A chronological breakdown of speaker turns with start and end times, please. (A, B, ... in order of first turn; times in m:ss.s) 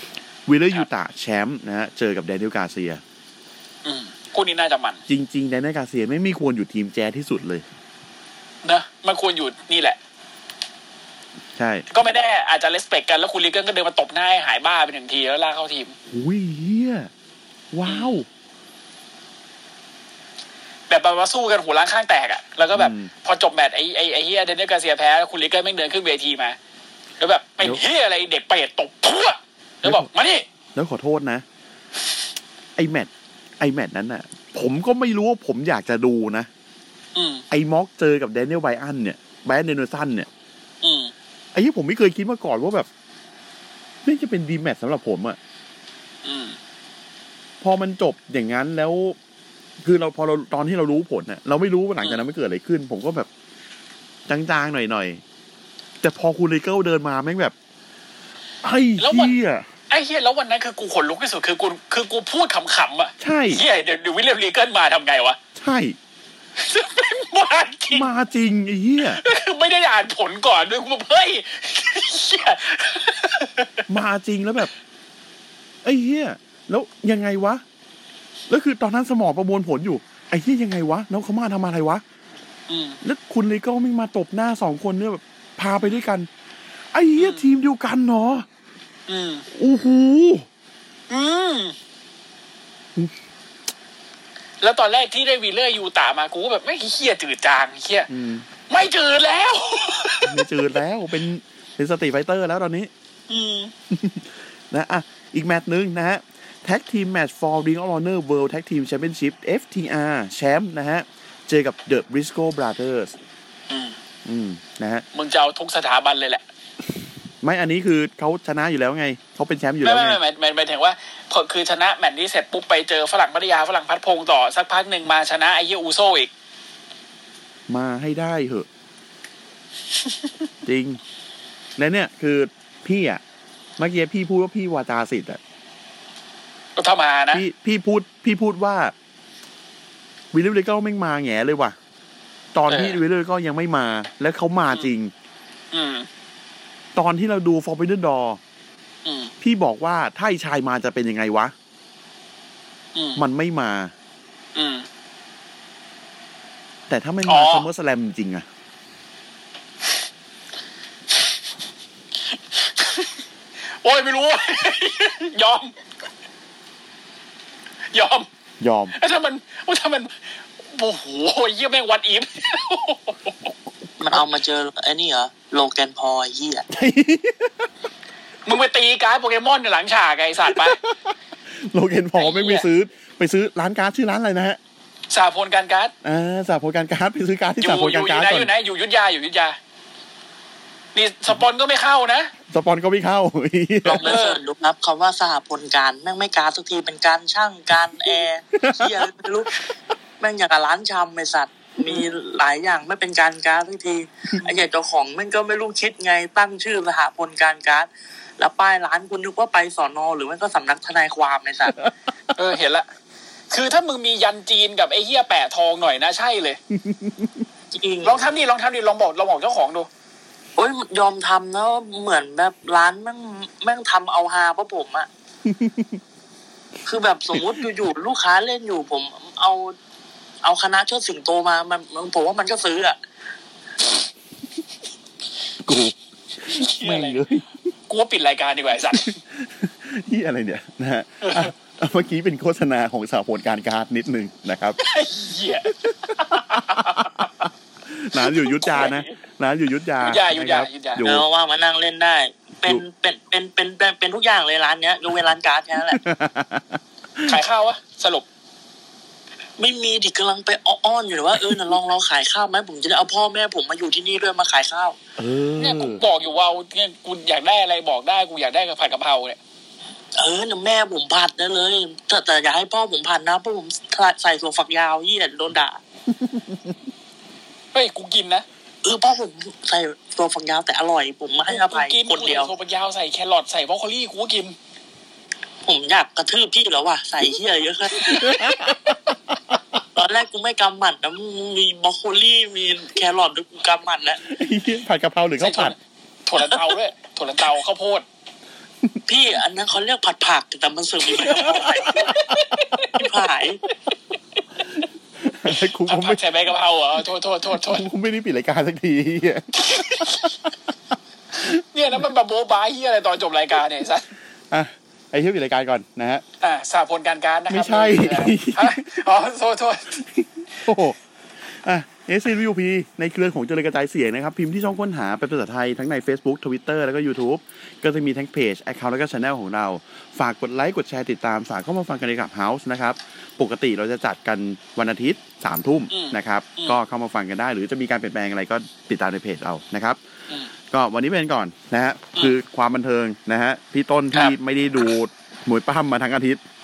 0:00.4-0:03.0 A
0:03.8-0:05.0 B
0:05.1-0:07.6 A
0:08.6-0:10.0 B
0:11.5-0:11.8 A
0:11.9-0:16.0 B
0:16.1-0:17.1 A
0:17.7-0:18.3 A
0:17.8-0:18.2 B
0:20.9-0:26.6 B
0:22.7-0:23.1 A
0:27.2-0:30.4 B
0:29.8-0:30.1 A
0:30.7-0:31.4 A
0:32.8-0:36.5 A
0:37.1-0:37.4 B
0:37.5-0:40.3 A
0:40.8-0:41.1 B
0:41.5-0:42.9 A
0:44.0-0:45.4 A
0:46.2-0:46.6 B
0:47.6-0:49.2 A
0:49.8-0:53.3 A
0:54.3-0:55.2 A
0:56.0-0:57.5 A
0:58.6-0:59.6 A
0:59.0-0:59.3 B
0:59.9-1:05.4 B
1:03.2-1:03.6 A
1:05.5-1:06.0 A
1:06.6-1:08.1 B
1:07.9-1:09.2 A
1:09.0-1:13.8 B
1:13.9-1:14.7 A
1:15.8-1:17.6 A
1:18.5-1:22.0 A
1:22.7-1:23.0 B
1:23.0-1:26.3 A
1:26.9-1:28.5 A
1:27.2-1:27.4 B
1:29.1-1:29.4 B
1:29.5-1:30.5 A
1:31.1-1:31.8 B
1:34.6-1:38.1 B
1:38.1-1:38.4 A
1:38.7-1:40.5 B
1:40.2-1:42.9 A
1:43.3-1:43.7 B
1:43.9-1:53.1 A
1:53.7-1:54.0 B
1:54.2-1:55.0 A
1:55.1-1:56.4 B
1:57.4-2:00.2 A
1:59.8-2:06.3 B
2:07.7-2:08.7 A
2:10.6-2:11.0 A
2:11.8-2:13.2 A
2:13.8-2:15.4 A
2:16.8-2:17.4 B
2:17.3-2:18.9 A
2:20.3-2:21.8 A
2:22.5-2:25.1 A
2:22.7-2:23.0 B
2:25.7-2:26.1 B
2:26.9-2:28.4 A
2:29.0-2:29.3 B
2:29.4-2:31.5 A
2:32.9-2:33.2 B
2:33.2-2:33.9 A
2:34.5-2:34.9 B
2:36.9-2:38.4 A
2:37.2-2:37.6 B
2:42.5-2:43.1 B
2:43.8-2:45.8 B
2:47.9-2:48.3 B
2:48.6-2:48.9 A
2:48.9-2:53.5 B
2:54.0-2:56.6 C
2:56.7-2:57.7 A
2:58.4-3:00.8 B
3:00.5-3:04.6 A
3:02.2-3:02.7 B
3:05.1-3:05.9 B
3:06.0-3:08.5 A
3:07.6-3:09.6 B
3:10.9-3:12.3 B
3:12.5-3:14.2 A
3:13.8-3:19.5 C
3:14.0-3:14.4 B
3:18.6-3:19.1 A
3:20.2-3:31.8 C
3:32.3-3:32.9 B
3:33.5-3:36.6 B
3:36.7-3:37.4 A
3:37.7-3:38.3 C
3:38.0-3:39.9 B
3:40.6-3:45.1 C
3:45.4-3:46.0 A
3:46.9-3:49.7 C
3:47.3-3:47.6 A
3:50.4-3:53.0 C
3:55.6-3:57.5 A
3:56.5-3:57.2 B
3:57.9-3:59.2 B
3:58.9-4:04.8 A
4:01.2-4:01.5 B
4:04.8-4:07.3 B
4:05.8-4:11.3 A
4:08.2-4:09.2 B
4:10.0-4:11.0 B
4:11.0-4:16.0 C
4:15.9-4:17.4 A
4:17.2-4:18.2 B
4:19.6-4:25.0 C
4:25.2-4:26.0 A
4:25.6-4:29.4 B
4:30.2-4:35.8 C
4:37.7-4:38.4 B
4:38.8-4:42.5 C
4:41.5-4:44.6 B
4:45.6-4:48.5 C
4:48.0-4:48.6 B
4:48.0-4:49.0 A
4:50.0-4:54.2 C
4:54.3-4:55.7 A
4:55.4-4:58.0 B
4:59.1-5:03.6 C
5:01.8-5:02.9 B
5:05.2-5:06.2 A
5:05.4-5:07.9 B
5:07.5-5:10.3 A
5:09.6-5:10.3 B
5:11.4-5:14.1 B
5:14.5-5:16.2 A
5:16.4-5:20.0 B
5:17.5-5:19.0 A
5:20.0-5:21.0 A
5:21.5-5:40.0 A
5:35.9-5:36.8 B
5:40.7-5:46.4 A